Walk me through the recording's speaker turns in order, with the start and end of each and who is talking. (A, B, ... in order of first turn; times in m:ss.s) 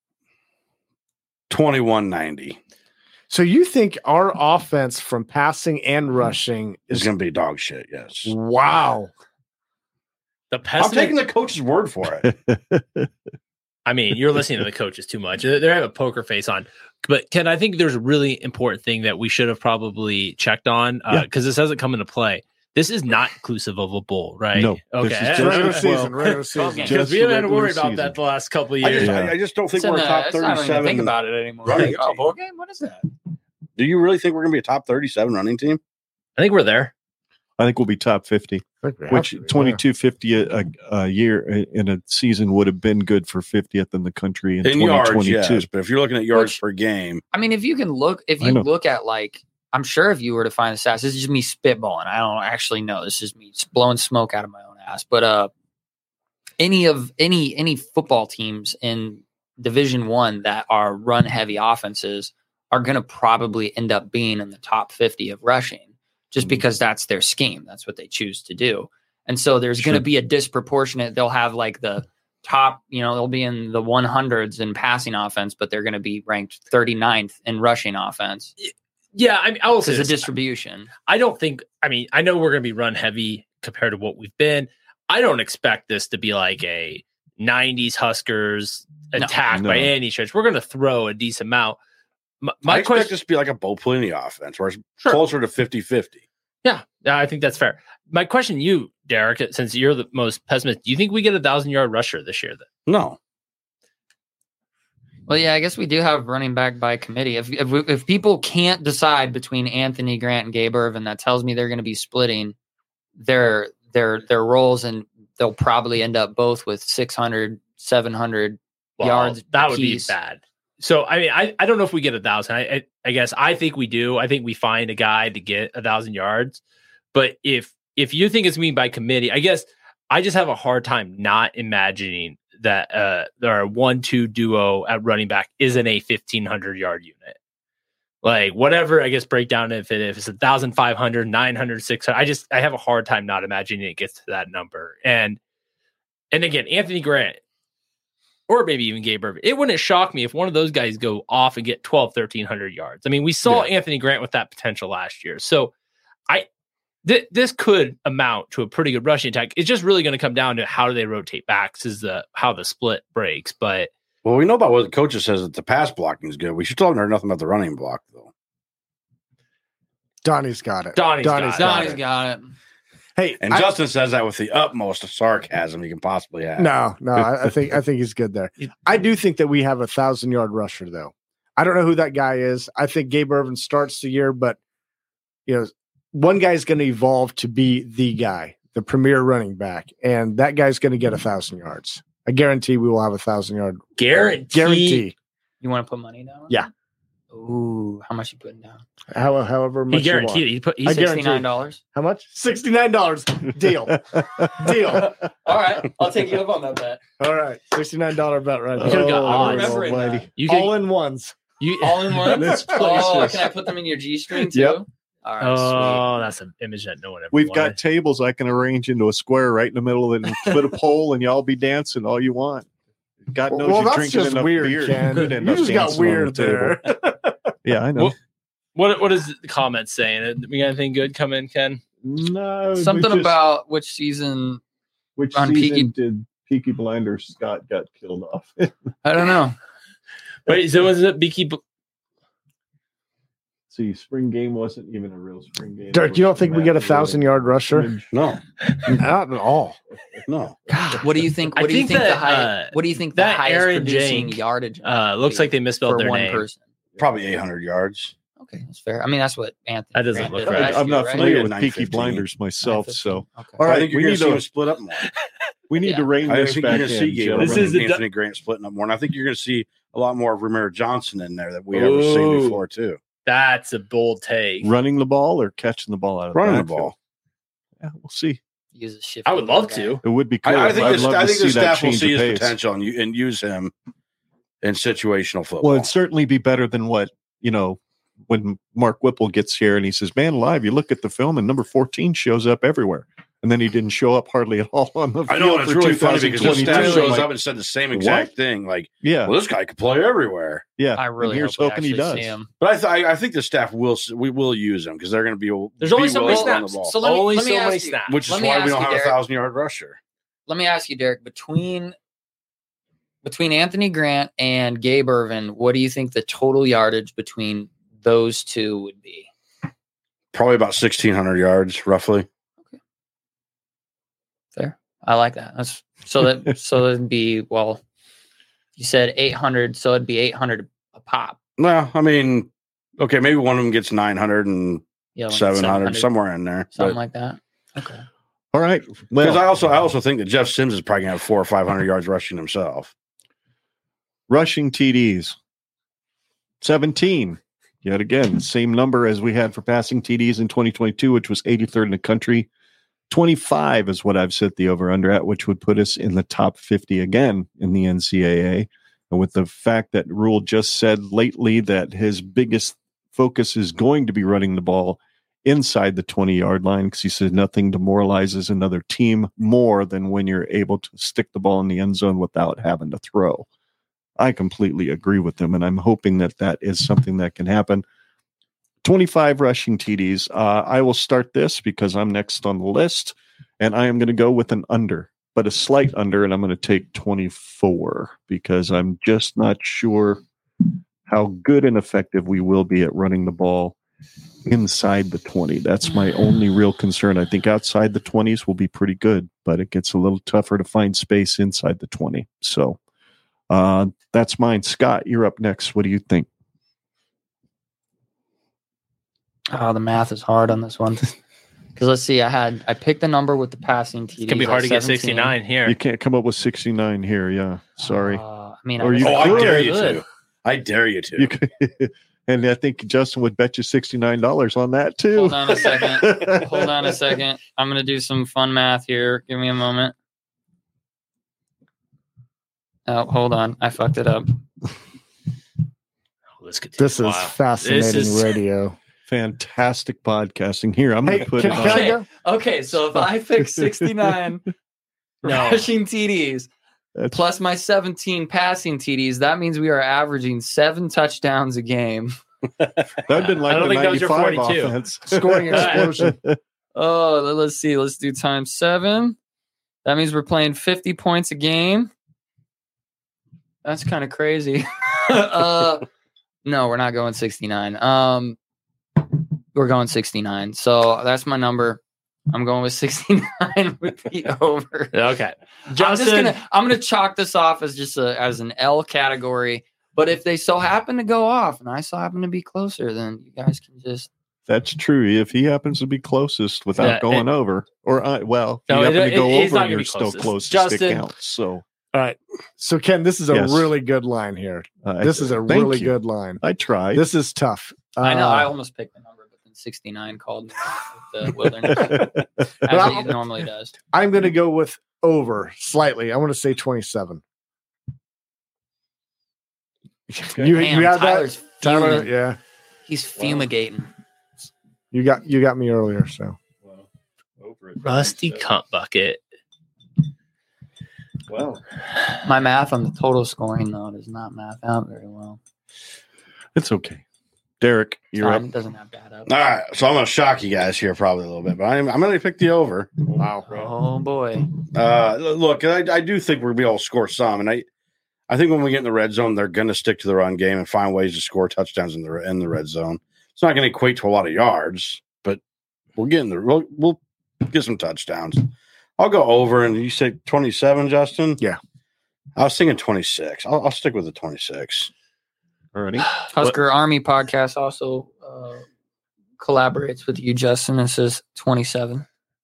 0:01.5-0:02.6 A
0:03.3-0:07.1 B
0:06.9-0:08.3 A
0:08.3-0:09.1 B
0:10.5-0:11.2 C
0:10.8-0:12.3 A
0:12.2-0:13.1 D
0:13.9-0:29.2 C
0:24.5-0:26.2 D
0:25.3-0:27.0 B
0:26.6-0:27.0 E
0:26.8-0:28.2 D
0:28.8-0:31.1 A
0:29.0-0:29.3 D
0:29.8-0:33.1 E
0:31.6-0:32.2 A
0:33.8-0:35.8 A
0:36.4-0:36.9 C
0:37.6-0:45.7 D
0:38.8-0:39.8 B
0:44.6-0:47.2 A
0:46.3-0:46.6 E
0:47.3-0:55.5 E
0:48.4-0:48.7 D
0:56.6-1:18.5 E
1:09.8-1:10.0 D
1:18.6-1:20.3 C
1:19.8-1:20.9 E
1:21.1-1:31.8 C
1:29.5-1:29.9 D
1:32.4-1:33.1 C
1:32.6-1:36.2 A
1:36.6-1:42.7 C
1:42.9-1:43.2 A
1:45.3-1:52.6 E
1:53.2-2:00.2 E
1:59.0-2:06.6 C
2:07.1-2:17.4 C
2:18.2-2:25.4 C
2:26.3-2:27.4 C
2:28.5-2:35.7 C
2:37.0-2:43.9 C
2:44.2-2:48.3 A
2:50.2-2:52.0 B
2:51.0-2:52.0 C
2:51.6-2:52.6 E
2:53.2-2:53.7 B
2:53.4-2:56.7 A
2:56.6-3:04.6 B
3:05.5-3:15.1 B
3:14.0-3:15.1 C
3:15.6-3:16.7 E
3:17.3-3:18.8 E
3:19.1-3:25.2 B
3:19.9-3:21.1 C
3:20.9-3:21.8 E
3:24.4-3:25.0 D
3:24.9-3:27.0 E
3:27.2-3:33.5 B
3:28.8-3:30.3 D
3:28.8-3:29.8 C
3:29.2-3:30.3 E
3:30.4-3:30.7 C
3:31.6-3:33.4 C
3:31.8-3:36.1 E
3:34.5-3:34.8 D
3:35.4-3:37.8 C
3:37.3-3:42.7 D
3:43.3-3:46.8 D
3:43.5-3:47.4 B
3:47.6-3:48.2 D
3:48.8-3:51.8 C
3:52.0-3:53.4 D
3:52.8-3:54.6 E
3:55.2-3:58.7 D
3:55.3-3:55.9 E
3:59.0-3:59.6 E
4:00.5-4:01.6 C
4:03.7-4:08.1 D
4:05.9-4:08.0 B
4:08.1-4:08.4 A
4:08.6-4:09.0 C
4:08.9-4:09.8 B
4:10.3-4:10.6 A
4:10.7-4:16.6 E
4:11.5-4:16.4 C
4:17.0-4:18.1 A
4:18.4-4:21.3 E
4:20.0-4:21.0 C
4:20.5-4:24.4 D
4:21.0-4:22.2 A
4:22.6-4:23.6 E
4:23.6-4:25.1 A
4:25.7-4:27.8 D
4:25.8-4:26.1 E
4:26.3-4:33.0 A
4:27.4-4:28.0 C
4:31.7-4:32.6 C
4:33.2-4:34.7 C
4:34.6-4:36.9 D
4:36.3-4:37.0 A
4:37.8-4:38.4 D
4:38.8-4:40.0 E
4:39.3-4:40.0 C
4:40.0-4:42.6 D
4:40.4-4:43.7 A
4:44.6-4:45.9 A
4:45.6-4:57.3 D
4:55.3-5:00.7 A
4:56.3-4:57.2 C
4:57.9-4:58.3 D
4:59.0-4:59.3 D
5:00.8-5:02.4 D
5:01.0-5:02.5 E
5:02.6-5:07.0 A
5:05.8-5:08.2 C
5:06.2-5:09.2 E
5:08.1-5:10.0 A
5:10.5-5:12.0 E
5:13.2-5:19.3 E
5:20.3-5:22.3 A
5:24.6-5:27.8 E
5:28.8-5:31.4 E
5:31.6-5:37.0 A
5:35.2-5:36.1 E
5:36.8-5:38.0 E
5:38.5-5:39.4 D
5:39.2-5:42.9 A
5:44.3-5:45.4 D
5:46.6-5:52.5 D
5:53.1-6:13.5 D
6:14.2-6:17.8 D
6:18.8-6:30.2 D
6:31.1-6:33.8 D
6:34.4-6:42.8 D
6:43.5-6:46.3 D
6:49.5-6:51.2 E
6:51.8-6:55.4 E
6:54.3-6:55.8 C
6:55.7-6:58.2 D
6:57.8-6:59.7 E
6:58.8-6:59.8 D
6:59.0-7:01.3 A
6:59.0-7:00.0 C
7:01.2-7:07.0 D
7:05.1-7:10.0 E
7:12.9-7:14.4 E
7:16.4-7:18.4 C
7:16.8-7:18.8 B
7:19.1-7:22.0 D
7:21.0-7:22.1 B
7:21.4-7:24.4 E
7:23.6-7:23.9 D
7:25.2-7:26.5 E
7:25.2-7:25.7 C
7:27.1-7:32.2 E
7:33.1-7:36.4 D
7:33.4-7:34.8 C
7:35.1-7:36.2 B
7:35.5-7:35.9 C
7:36.8-7:39.2 E
7:39.8-7:41.9 E
7:43.6-7:45.9 E
7:46.4-7:48.4 E
7:49.5-7:54.9 E
7:54.9-7:56.4 C
7:55.7-8:04.1 E
8:04.5-8:11.6 D
8:06.8-8:07.3 C
8:08.7-8:11.0 C
8:11.9-8:16.4 B
8:13.3-8:13.7 D
8:14.8-8:17.1 D
8:16.9-8:18.5 B
8:18.0-8:23.7 E
8:21.6-8:22.7 D
8:22.7-8:23.2 B
8:23.9-8:27.2 B
8:30.1-8:32.4 B
8:30.6-8:32.1 E
8:32.9-8:33.9 E
8:34.9-8:36.4 B
8:37.4-8:38.4 D
8:37.8-8:39.2 C
8:41.3-8:41.6 D
8:42.2-8:45.4 E
8:46.6-8:47.0 D
8:47.6-8:48.5 D
8:48.2-8:49.3 E
8:49.3-8:53.2 A
8:53.2-8:53.5 B
8:53.5-8:54.5 E
8:54.7-8:57.7 A
8:58.3-9:05.4 A
9:06.0-9:11.4 A
9:12.4-9:14.9 A
9:15.7-9:16.1 D
9:16.3-9:18.6 E
9:19.4-9:22.0 E